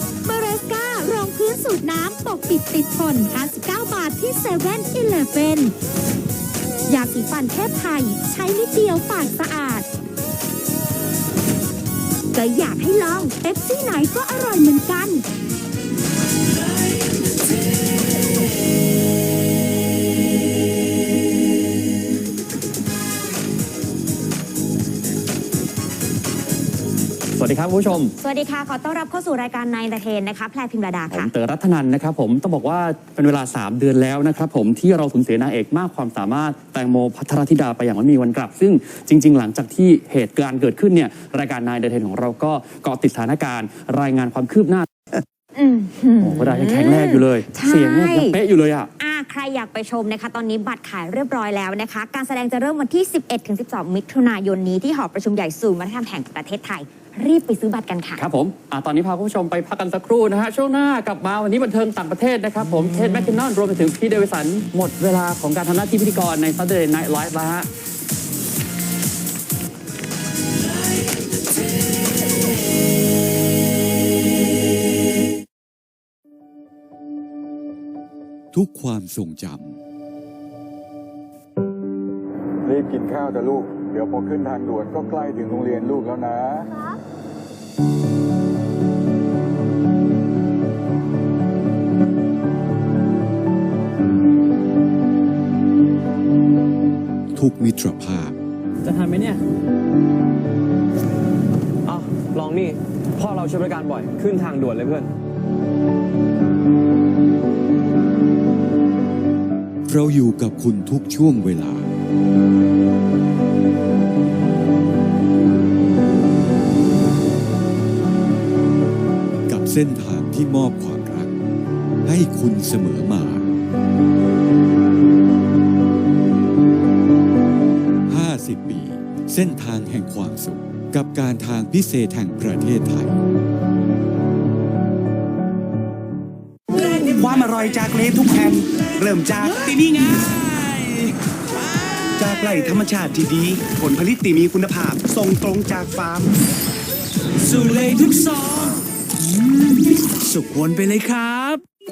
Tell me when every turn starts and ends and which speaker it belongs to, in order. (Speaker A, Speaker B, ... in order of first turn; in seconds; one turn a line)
Speaker A: 0.2-5.7
Speaker A: 6.9-9.9
Speaker A: 12.3-15.2
Speaker B: 27.3-28.1
Speaker C: 28.2-31.3
Speaker B: 31.1-44.9
Speaker C: 45.5-48.4
Speaker B: 46.2-48.9
Speaker C: 49.0-58.3
Speaker B: 58.2-67.7
Speaker D: 78.5-79.8
Speaker E: 82.7-86.7
Speaker D: 97.3-98.3
Speaker F: 101.9-105.1
Speaker D: 109.9-111.9
Speaker D: 119.5-121.3
Speaker D: 122.0-123.5
Speaker D: 128.1-133.2
Speaker G: 136.8-140.9
Speaker G: 142.2-146.3
Speaker G: 147.6-148.2
Speaker G: 150.3-151.5